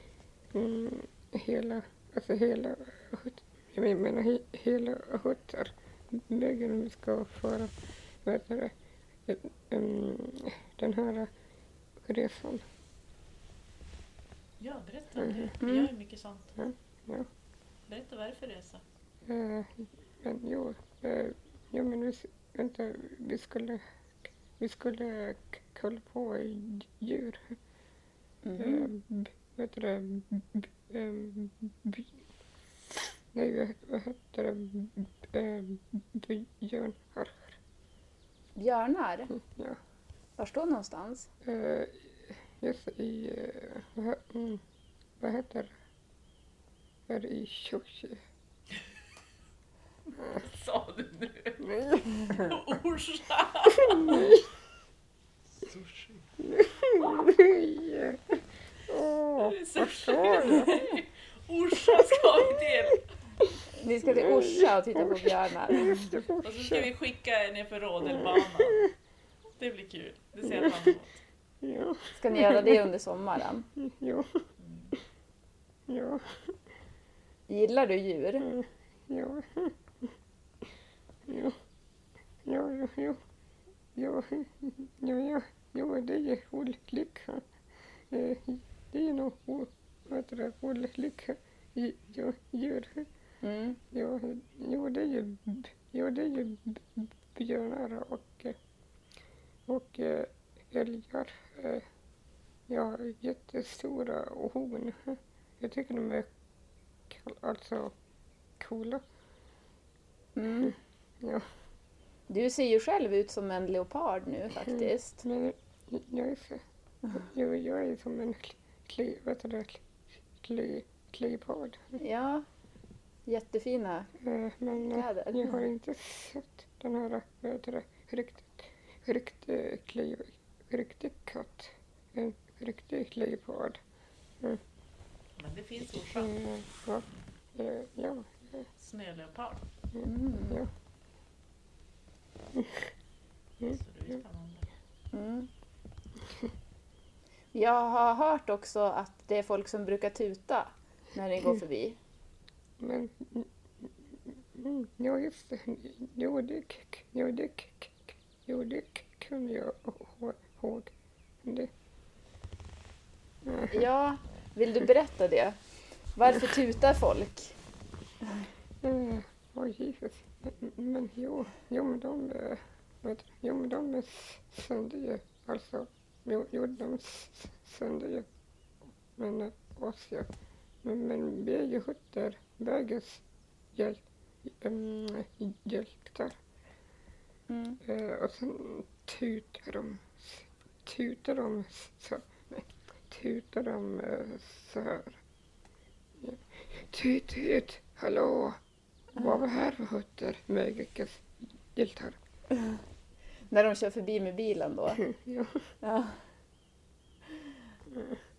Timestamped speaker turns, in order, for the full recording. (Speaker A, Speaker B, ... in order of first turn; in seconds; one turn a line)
Speaker A: 0.5-7.7
Speaker A: 8.2-8.7
Speaker A: 9.2-11.3
Speaker A: 12.0-12.6
Speaker B: 14.6-16.5
Speaker A: 15.2-15.5
Speaker C: 15.6-15.9
Speaker A: 16.6-17.3
Speaker B: 17.9-18.8
Speaker A: 19.2-23.8
Speaker A: 24.6-27.5
Speaker C: 28.4-28.9
Speaker A: 28.6-32.1
Speaker A: 33.3-37.5
Speaker C: 38.5-39.3
Speaker A: 39.3-39.8
Speaker C: 40.4-41.3
Speaker A: 41.4-44.6
Speaker A: 45.2-45.7
Speaker A: 47.1-48.2
Speaker B: 50.2-54.3
Speaker A: 51.6-52.5
Speaker A: 53.8-54.5
Speaker B: 55.6-56.2
Speaker A: 56.4-58.2
Speaker A: 58.9-60.8
Speaker B: 59.4-63.0
Speaker C: 63.8-66.0
Speaker A: 64.0-66.9
Speaker B: 66.4-68.9
Speaker A: 68.2-68.7
Speaker B: 69.6-71.2
Speaker A: 70.6-70.8
Speaker A: 71.6-72.8
Speaker C: 72.2-73.7
Speaker A: 73.8-74.4
Speaker B: 74.6-74.9
Speaker A: 75.9-76.3
Speaker C: 77.5-78.5
Speaker A: 78.4-80.1
Speaker A: 81.3-81.6
Speaker A: 82.4-83.2
Speaker A: 84.0-87.4
Speaker A: 88.1-93.0
Speaker C: 93.4-93.8
Speaker A: 93.9-98.5
Speaker A: 99.7-101.8
Speaker A: 102.7-106.3
Speaker A: 107.1-107.9
Speaker A: 108.6-109.0
Speaker C: 110.3-110.7
Speaker A: 110.7-111.4
Speaker C: 112.3-115.2
Speaker A: 115.2-119.8
Speaker A: 120.4-122.0
Speaker C: 122.0-122.4
Speaker C: 123.3-124.1
Speaker A: 124.2-133.8
Speaker C: 124.8-125.6
Speaker B: 135.4-136.3
Speaker A: 136.1-138.6
Speaker B: 138.8-139.6
Speaker A: 139.9-140.7
Speaker C: 140.0-140.6
Speaker A: 142.5-142.8
Speaker B: 143.6-144.7
Speaker C: 145.1-145.5
Speaker C: 147.5-152.0
Speaker A: 152.8-160.9
Speaker A: 161.4-161.7
Speaker A: 163.4-163.8
Speaker C: 163.7-165.6
Speaker C: 166.1-167.6
Speaker A: 168.8-178.3
Speaker A: 179.2-180.3
Speaker A: 180.8-183.2
Speaker A: 183.7-186.4
Speaker C: 187.5-187.8
Speaker A: 187.8-195.2
Speaker A: 196.2-198.6
Speaker A: 199.1-202.2
Speaker C: 203.5-205.0
Speaker A: 205.1-205.6
Speaker C: 205.8-206.2